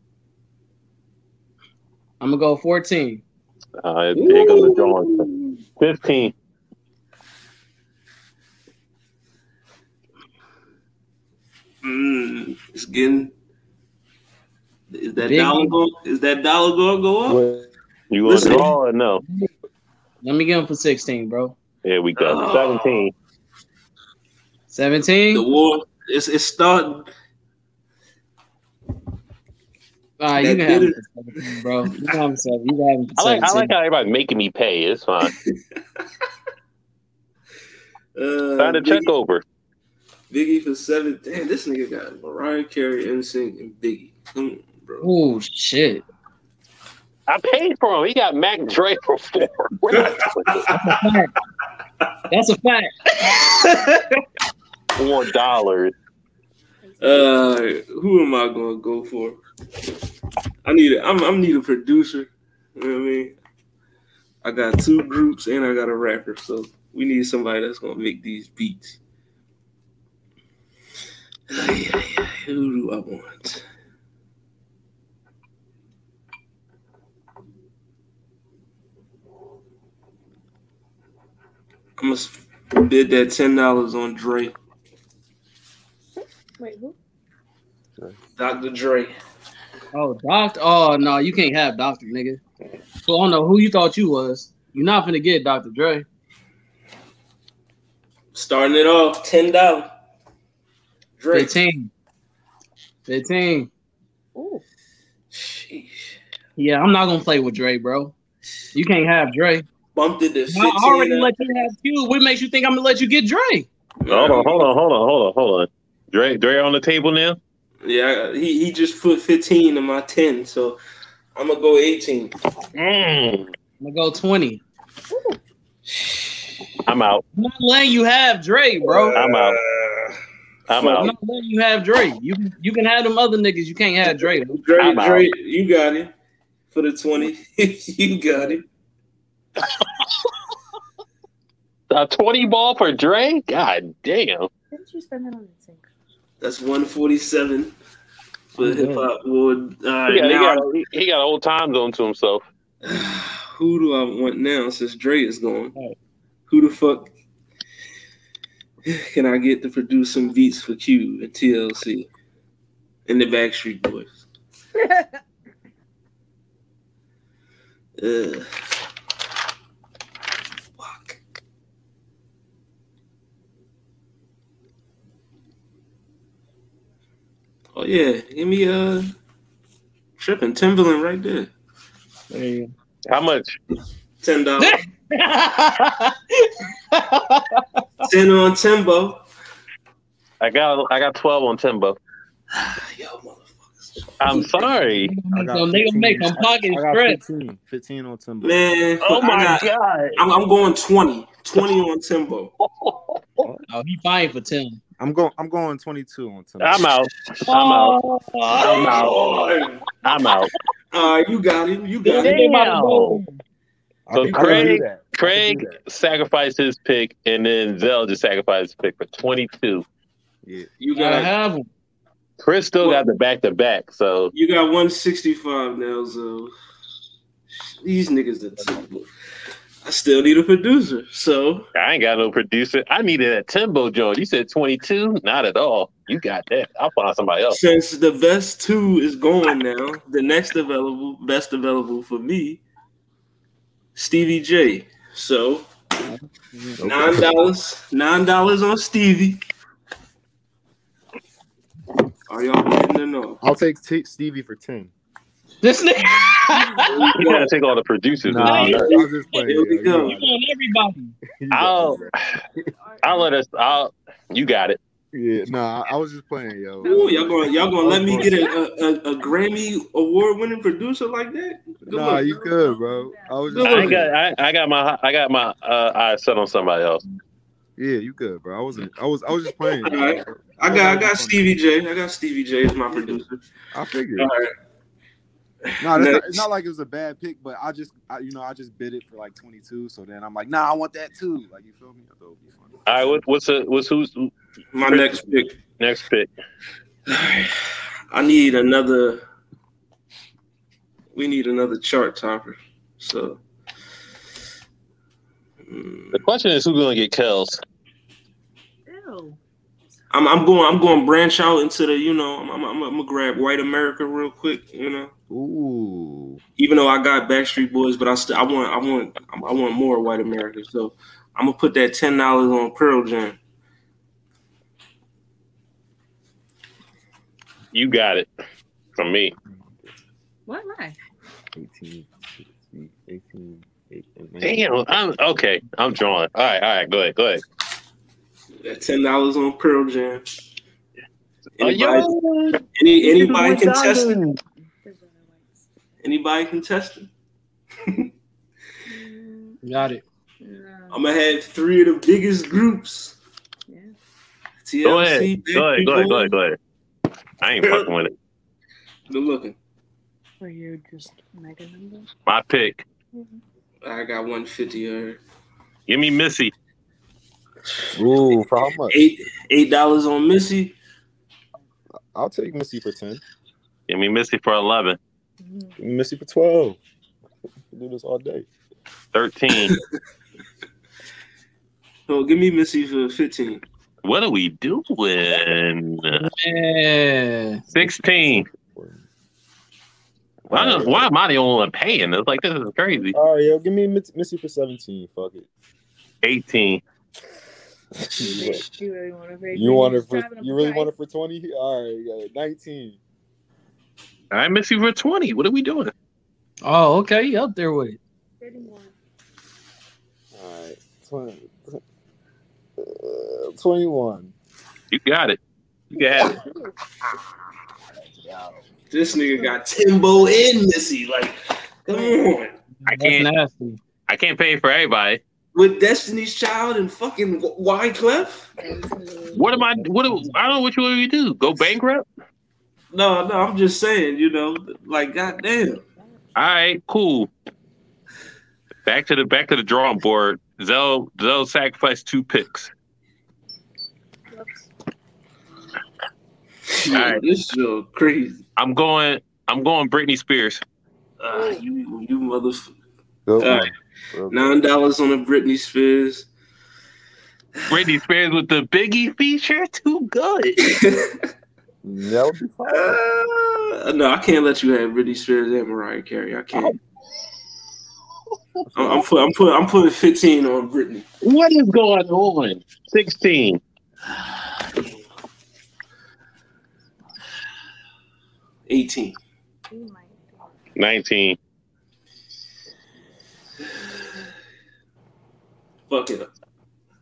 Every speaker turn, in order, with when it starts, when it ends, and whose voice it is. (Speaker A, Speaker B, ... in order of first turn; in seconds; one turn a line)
Speaker A: 2.2-3.2
Speaker B: 3.8-6.3
Speaker C: 4.2-5.5
Speaker C: 11.8-13.3
Speaker C: 14.9-17.4
Speaker A: 15.2-15.7
Speaker D: 17.2-17.7
Speaker B: 18.1-19.2
Speaker C: 18.2-18.7
Speaker A: 20.2-21.6
Speaker B: 21.8-23.1
Speaker C: 22.2-23.1
Speaker A: 24.7-25.4
Speaker C: 25.3-27.1
Speaker A: 30.2-33.7
Speaker C: 30.4-31.0
Speaker B: 33.2-35.3
Speaker C: 35.2-35.5
Speaker C: 38.1-39.1
Speaker B: 38.6-39.4
Speaker C: 40.3-45.1
Speaker A: 45.0-46.0
Speaker B: 47.3-50.7
Speaker C: 50.0-50.7
Speaker A: 50.7-51.3
Speaker A: 52.3-53.8
Speaker B: 55.0-55.9
Speaker E: 56.9-57.5
Speaker C: 57.0-59.4
Speaker C: 60.6-63.3
Speaker C: 64.4-69.0
Speaker C: 71.5-73.6
Speaker C: 82.0-84.5
Speaker E: 86.6-87.0
Speaker C: 88.4-89.1
Speaker A: 89.9-92.4
Speaker A: 93.0-96.0
Speaker C: 98.3-99.9
Speaker C: 101.2-101.5
Speaker A: 101.3-101.9
Speaker A: 103.0-103.7
Speaker E: 104.3-104.6
Speaker C: 105.3-106.1
Speaker A: 106.5-108.1
Speaker A: 108.7-109.7
Speaker C: 109.9-111.3
Speaker A: 110.5-113.7
Speaker C: 114.0-114.7
Speaker B: 114.1-117.4
Speaker C: 117.8-120.8
Speaker C: 121.3-122.3
Speaker B: 122.8-123.5
Speaker A: 123.8-124.6
Speaker C: 125.8-126.5
Speaker B: 126.8-127.2
Speaker A: 127.3-129.2
Speaker C: 128.8-130.2
Speaker B: 129.1-129.6
Speaker B: 130.7-131.1
Speaker C: 130.7-131.1
Speaker A: 130.9-134.6
Speaker C: 134.2-136.1
Speaker B: 134.8-135.3
Speaker C: 136.7-138.6
Speaker B: 141.9-144.5
Speaker E: 144.7-145.9
Speaker C: 146.4-147.7
Speaker C: 148.6-150.6
Speaker A: 148.6-149.1
Speaker B: 150.1-152.4
Speaker C: 152.8-155.7
Speaker C: 156.5-157.1
Speaker C: 158.8-162.1
Speaker C: 163.1-164.2
Speaker C: 168.0-168.5
Speaker C: 170.8-171.2
Speaker C: 177.7-179.1
Speaker C: 180.2-181.5
Speaker A: 182.3-182.7
Speaker B: 183.1-183.6
Speaker C: 184.2-184.8
Speaker A: 184.6-187.8
Speaker C: 188.0-189.2
Speaker B: 190.4-192.0
Speaker C: 192.5-194.5
Speaker B: 194.2-195.1
Speaker A: 194.8-197.2
Speaker D: 195.3-198.8
Speaker C: 198.4-202.5
Speaker B: 199.0-200.2
Speaker B: 202.6-203.4
Speaker A: 203.7-204.8
Speaker D: 205.0-206.8
Speaker B: 206.6-208.0
Speaker A: 207.4-209.0
Speaker B: 208.5-210.5
Speaker C: 208.6-209.8
Speaker C: 210.9-212.4
Speaker A: 212.1-213.4
Speaker B: 212.1-213.2
Speaker D: 214.1-215.8
Speaker B: 214.1-219.8
Speaker A: 214.3-214.7
Speaker D: 220.4-220.7
Speaker C: 220.8-221.3
Speaker A: 220.9-221.7
Speaker B: 222.4-224.3
Speaker C: 222.8-223.1
Speaker C: 224.3-226.5
Speaker C: 227.8-229.1
Speaker C: 229.8-231.7
Speaker B: 231.7-237.6
Speaker C: 237.5-242.6
Speaker C: 243.9-245.7
Speaker A: 246.0-246.8
Speaker D: 246.8-247.4
Speaker C: 246.8-249.4
Speaker C: 252.3-253.4
Speaker D: 253.4-254.9
Speaker A: 255.6-257.1
Speaker C: 256.5-257.5
Speaker B: 257.1-258.9
Speaker D: 258.2-260.4
Speaker E: 258.4-259.5
Speaker A: 258.4-259.0
Speaker C: 258.4-260.1
Speaker A: 260.0-261.1
Speaker D: 261.4-262.1
Speaker B: 261.5-262.1
Speaker E: 261.8-263.4
Speaker B: 263.0-264.8
Speaker D: 265.1-268.4
Speaker E: 266.8-268.5
Speaker C: 266.9-272.3
Speaker D: 271.9-274.1
Speaker E: 271.9-274.0
Speaker B: 273.6-277.0
Speaker C: 273.6-273.9
Speaker D: 277.8-281.5
Speaker C: 279.8-283.4
Speaker D: 282.9-284.3
Speaker C: 284.2-284.5
Speaker C: 285.7-286.4
Speaker D: 285.8-292.8
Speaker B: 292.9-294.3
Speaker C: 294.7-295.6
Speaker B: 294.8-295.2
Speaker B: 295.8-296.3
Speaker C: 297.1-297.6
Speaker C: 298.1-299.2
Speaker C: 301.1-303.4
Speaker C: 305.7-306.2
Speaker B: 306.1-307.6
Speaker E: 308.9-309.4
Speaker C: 310.1-315.1
Speaker D: 315.3-316.4
Speaker C: 316.6-323.4
Speaker B: 327.7-328.3
Speaker B: 329.0-329.3
Speaker D: 329.5-329.9
Speaker E: 330.5-331.0
Speaker D: 331.5-334.6
Speaker B: 334.4-337.4
Speaker C: 338.6-340.2
Speaker C: 341.6-342.1
Speaker B: 341.6-344.4
Speaker C: 342.7-344.2
Speaker E: 344.8-345.6
Speaker C: 346.0-347.1
Speaker E: 348.9-349.6
Speaker A: 349.6-350.0
Speaker E: 350.4-351.0
Speaker C: 350.9-353.2
Speaker E: 353.7-353.9
Speaker C: 354.6-356.3
Speaker B: 354.8-356.6
Speaker B: 357.4-358.1
Speaker C: 357.6-357.9
Speaker C: 359.1-359.6
Speaker E: 360.4-362.1
Speaker B: 362.2-362.9
Speaker E: 363.1-363.4
Speaker C: 363.8-365.2
Speaker B: 365.9-366.5
Speaker D: 367.9-368.9
Speaker C: 368.9-370.8
Speaker D: 372.1-373.2
Speaker B: 373.9-375.0
Speaker E: 375.4-375.7
Speaker D: 375.8-376.8
Speaker D: 377.7-378.5
Speaker B: 379.1-379.7
Speaker C: 382.1-383.6
Speaker B: 384.0-386.2
Speaker A: 386.1-387.7
Speaker B: 387.7-388.4
Speaker D: 387.8-389.0
Speaker D: 390.5-391.1
Speaker B: 390.5-393.1
Speaker D: 393.1-395.5
Speaker B: 396.2-396.8
Speaker D: 398.1-398.6
Speaker E: 398.1-400.9
Speaker D: 399.5-403.0
Speaker B: 404.3-405.9
Speaker A: 406.6-408.0
Speaker E: 408.4-408.9
Speaker D: 410.3-411.8
Speaker D: 412.8-414.3
Speaker B: 414.9-415.4
Speaker B: 415.9-416.4
Speaker E: 416.2-416.5
Speaker D: 417.9-418.6
Speaker C: 418.9-422.5
Speaker E: 421.9-422.2
Speaker A: 422.8-423.8
Speaker B: 422.9-423.3
Speaker B: 424.1-425.2
Speaker C: 425.5-428.5
Speaker E: 428.6-430.3
Speaker B: 429.3-432.1
Speaker C: 432.9-435.8
Speaker B: 436.3-437.3
Speaker B: 438.8-442.7
Speaker E: 444.3-444.7
Speaker C: 446.7-448.4
Speaker B: 446.8-447.2
Speaker B: 448.6-450.6
Speaker C: 451.2-452.7
Speaker E: 451.3-451.6
Speaker D: 453.3-454.6
Speaker C: 453.4-453.7
Speaker C: 454.3-456.3
Speaker B: 457.7-460.7
Speaker C: 460.7-461.1
Speaker D: 461.8-463.0
Speaker C: 462.7-466.7
Speaker D: 468.7-469.1
Speaker C: 468.7-471.0
Speaker B: 471.2-473.6
Speaker C: 478.7-479.2
Speaker E: 479.7-480.5
Speaker B: 480.8-481.4
Speaker C: 485.9-486.3